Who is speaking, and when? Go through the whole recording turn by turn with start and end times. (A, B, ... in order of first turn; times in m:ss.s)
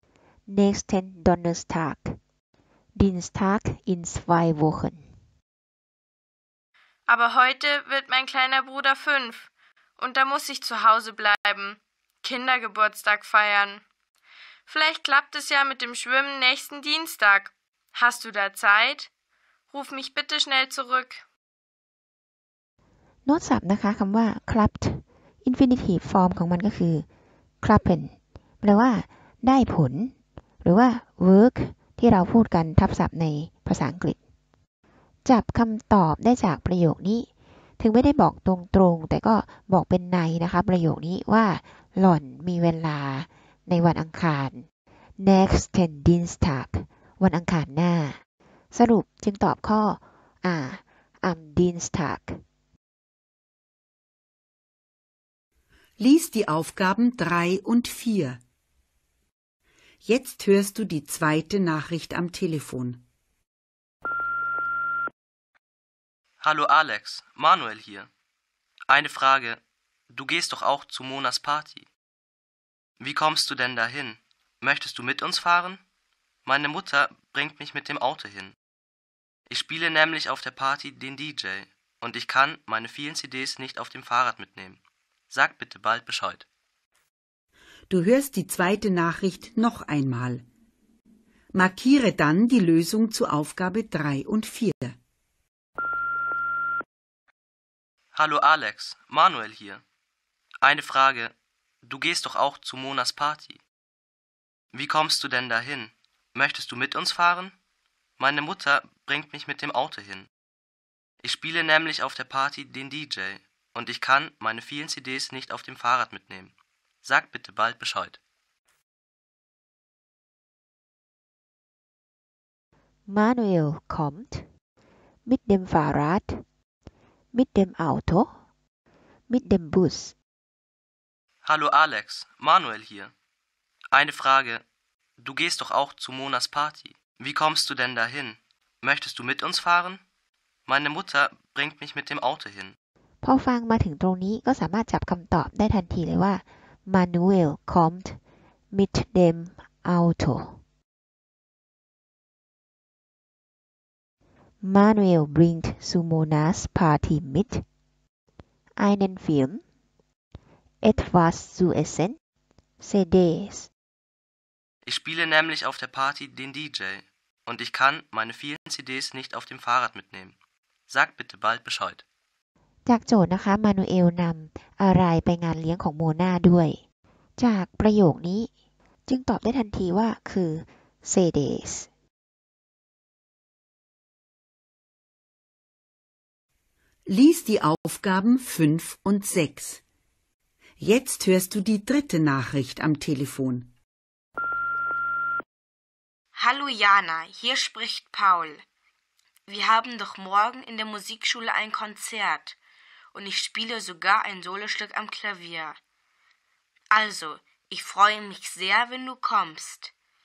0:00.5-0:02.2 A
0:02.9-0:05.1 A
0:07.1-0:13.8 B
0:14.6-0:19.1 B
0:19.7-0:21.2 B
0:23.2-0:27.0 A
0:27.6-0:34.2 A
0:35.2-0:44.6 A
0:45.2-0:48.2 A
0:48.7-0:52.4 A
0:56.0-0:58.4 C
1:00.0-1:03.0 C
1:06.4-1:08.1 D
1:08.9-1:11.8 D
1:13.0-1:15.8 D
1:16.4-1:18.5 D
1:19.5-1:26.4 D
1:27.9-1:30.4 C
1:31.5-1:35.0 C
1:38.1-1:39.8 D
1:40.6-1:43.6 D
1:44.7-1:47.5 D
1:48.2-1:50.3 D
1:51.2-1:56.5 D
1:57.0-1:58.2 D
2:03.1-2:04.4 A
2:05.2-2:06.4 A
2:07.3-2:08.3 A
2:09.3-2:10.1 A
2:11.4-2:13.1 D
2:13.9-2:14.6 D
2:15.2-2:20.0 D
2:20.6-2:22.8 D
2:23.2-2:28.2 A
2:28.7-2:30.6 A
2:34.6-2:37.6 A
2:38.8-2:39.6 A
2:40.8-2:42.2 A
2:42.8-2:43.7 A
2:44.8-2:50.3 D
2:50.9-2:52.0 D
2:52.8-2:56.8 A
2:57.4-2:58.5 A
2:59.1-3:01.9 A
3:07.0-3:09.8 C
3:10.8-3:13.7 C
3:16.4-3:18.6 E
3:19.5-3:22.6 E
3:23.1-3:25.8 E
3:26.9-3:29.9 E